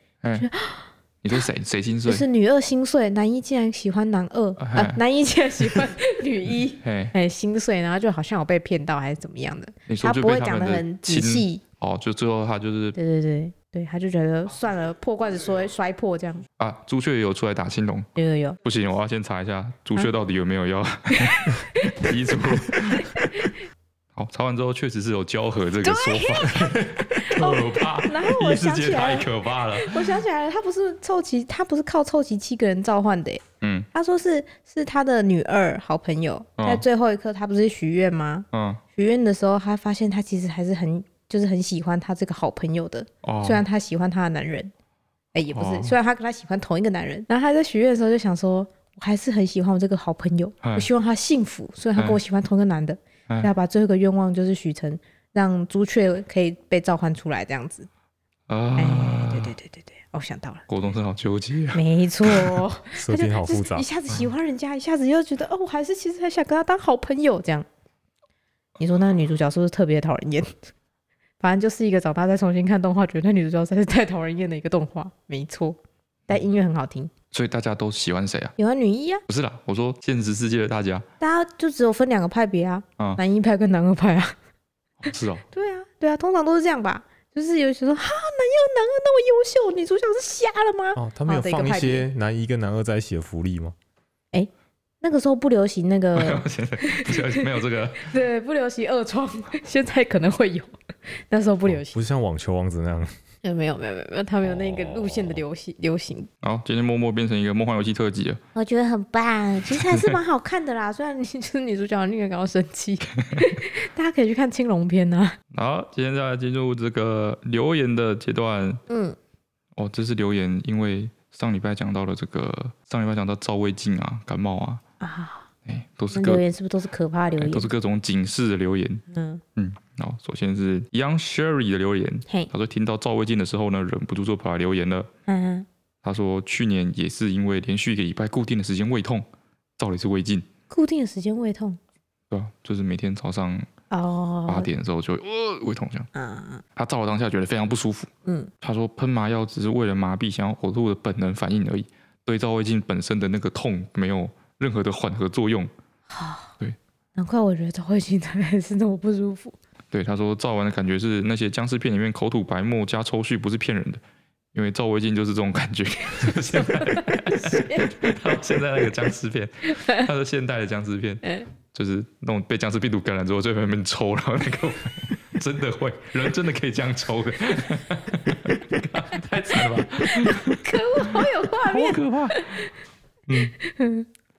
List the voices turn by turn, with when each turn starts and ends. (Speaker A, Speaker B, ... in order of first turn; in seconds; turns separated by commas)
Speaker A: 0.2-0.5, Speaker B: 0.4-1.4, Speaker A: 1.2-2.2, Speaker B: 2.1-11.6, Speaker A: 4.6-5.0, Speaker A: 6.8-7.1, Speaker A: 9.9-12.9, Speaker B: 12.9-16.4, Speaker A: 16.6-18.1, Speaker B: 18.1-18.6, Speaker A: 18.6-23.2, Speaker B: 21.1-23.6, Speaker A: 24.1-30.2, Speaker B: 25.8-44.7, Speaker A: 33.6-33.9, Speaker A: 36.6-36.8, Speaker A: 38.5-38.8, Speaker A: 43.2-43.6, Speaker B: 45.3-57.9, Speaker A: 45.5-46.0, Speaker A: 50.6-50.9, Speaker A: 58.5-59.5, Speaker B: 58.8-60.6, Speaker A: 60.7-62.6, Speaker B: 61.7-67.7, Speaker C: 62.9-63.9, Speaker B: 68.8-70.5, Speaker B: 71.4-75.8, Speaker B: 76.3-77.1, Speaker A: 77.3-78.5, Speaker B: 78.6-79.2, Speaker A: 79.3-81.0, Speaker B: 81.2-84.3, Speaker A: 85.0-85.4, Speaker B: 85.5-92.0, Speaker C: 91.0-93.7, Speaker B: 95.0-102.0, Speaker A: 96.2-98.1, Speaker C: 101.7-103.1, Speaker B: 103.4-106.3, Speaker C: 104.4-105.4, Speaker A: 106.4-108.4, Speaker B: 108.5-115.4, Speaker A: 109.7-110.1, Speaker A: 113.2-113.5, Speaker A: 115.5-118.8, Speaker B: 118.9-119.2, Speaker A: 119.8-124.8, Speaker B: 125.0-125.5, Speaker A: 125.7-126.4, Speaker B: 126.1-127.7, Speaker A: 127.4-129.0, Speaker B: 129.1-129.4, Speaker A: 129.6-135.1, Speaker B: 135.3-135.7, Speaker A: 136.0-139.3, Speaker A: 139.8-140.5, Speaker B: 140.7-141.8, Speaker A: 142.3-143.7, Speaker B: 143.9-144.7, Speaker A: 144.5-146.1, Speaker B: 146.1-146.6, Speaker A: 146.8-148.1, Speaker A: 148.6-155.7, Speaker B: 156.1-156.5, Speaker B: 157.2-159.6, Speaker A: 159.9-164.0, Speaker A: 164.5-182.7, Speaker B: 166.1-168.1, Speaker B: 169.7-170.1, Speaker B: 171.2-171.5, Speaker B: 180.0-182.7, Speaker A: 183.3-183.5, Speaker B: 183.6-184.1